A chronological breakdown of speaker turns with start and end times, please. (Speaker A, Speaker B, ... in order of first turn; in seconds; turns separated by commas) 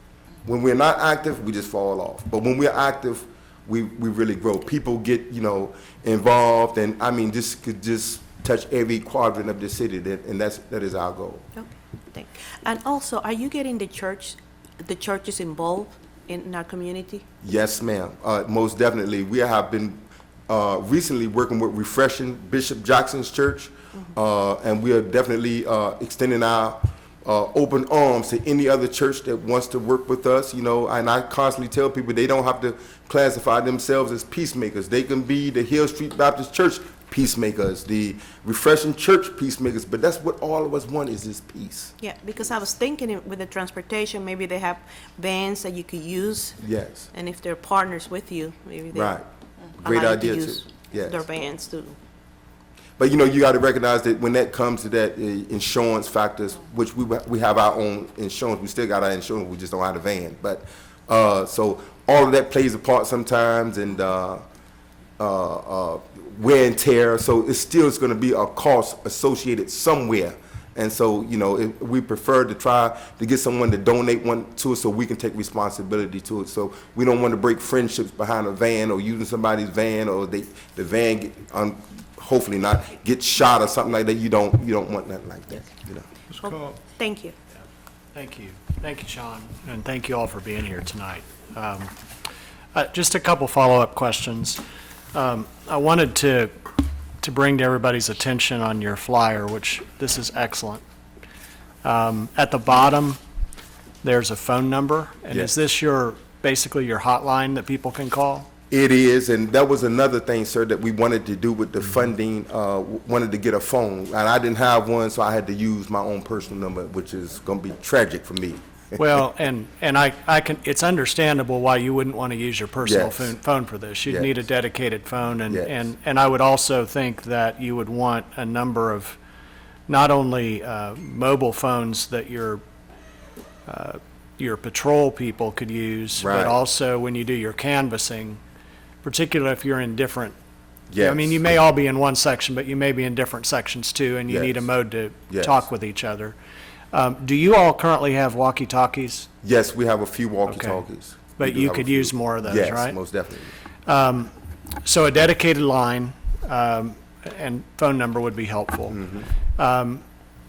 Speaker A: 0.4-11.4, Speaker B: 11.6-17.2, Speaker A: 17.4-41.9, Speaker B: 42.0-46.6, Speaker A: 46.6-47.1, Speaker B: 47.1-49.1, Speaker A: 48.9-49.2, Speaker A: 49.8-51.2, Speaker B: 49.8-52.0, Speaker A: 53.0-64.4, Speaker A: 65.2-86.1, Speaker B: 86.3-87.3, Speaker C: 88.1-91.9, Speaker C: 92.7-94.6, Speaker C: 95.1-96.5, Speaker C: 97.2-100.8, Speaker C: 101.8-103.2, Speaker C: 104.0-108.5, Speaker A: 108.7-119.0, Speaker C: 119.0-129.2, Speaker A: 122.8-123.3, Speaker A: 124.1-124.3, Speaker A: 125.5-125.8, Speaker C: 129.9-132.6, Speaker C: 133.7-138.4, Speaker A: 136.2-136.6, Speaker C: 139.0-140.3, Speaker A: 140.9-141.4, Speaker C: 141.0-146.3, Speaker A: 144.3-144.7, Speaker A: 145.3-145.6, Speaker C: 146.9-149.3, Speaker A: 149.4-153.5, Speaker C: 150.5-150.8, Speaker C: 151.4-153.0, Speaker C: 153.8-154.3, Speaker C: 154.8-159.0, Speaker A: 158.9-159.3, Speaker C: 159.6-160.0